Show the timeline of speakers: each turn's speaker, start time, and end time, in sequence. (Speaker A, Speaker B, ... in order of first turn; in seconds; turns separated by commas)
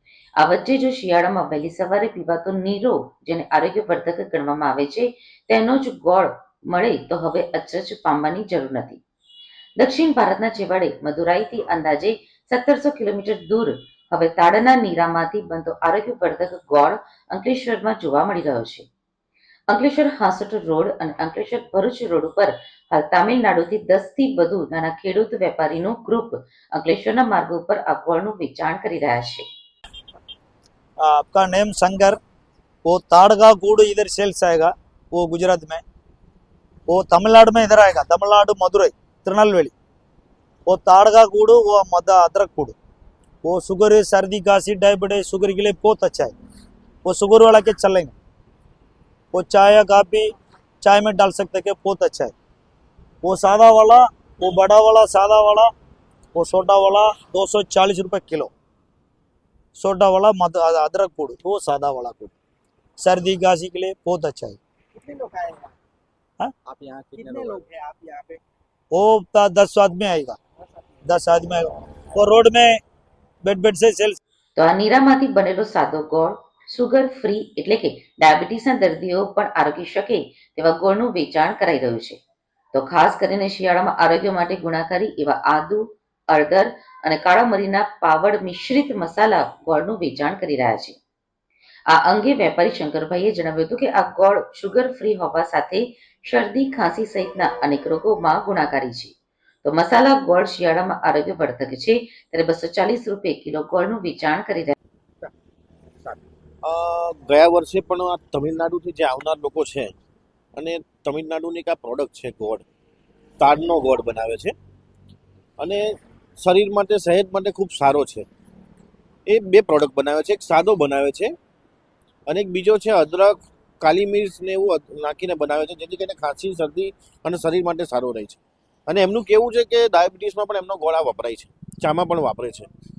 Speaker A: 0.4-9.0, Speaker A: 9.8-18.9, Speaker A: 19.7-29.5, Speaker B: 31.0-32.2, Speaker B: 32.9-35.8, Speaker B: 36.9-39.7, Speaker B: 40.7-42.8, Speaker B: 43.4-46.3, Speaker B: 47.0-48.1, Speaker B: 49.3-50.3, Speaker B: 50.8-52.3, Speaker B: 53.2-55.7, Speaker B: 56.4-58.5, Speaker B: 59.8-62.4, Speaker B: 63.0-64.6, Speaker C: 65.0-65.6, Speaker C: 66.7-68.4, Speaker B: 67.3-67.6, Speaker B: 68.9-70.4, Speaker B: 71.0-72.8, Speaker B: 73.4-74.2, Speaker A: 74.6-82.2, Speaker A: 82.7-91.0, Speaker A: 91.9-104.7, Speaker D: 106.1-109.9, Speaker D: 110.6-112.7, Speaker D: 113.4-114.5, Speaker D: 116.4-118.2, Speaker D: 119.3-121.3, Speaker D: 122.3-132.7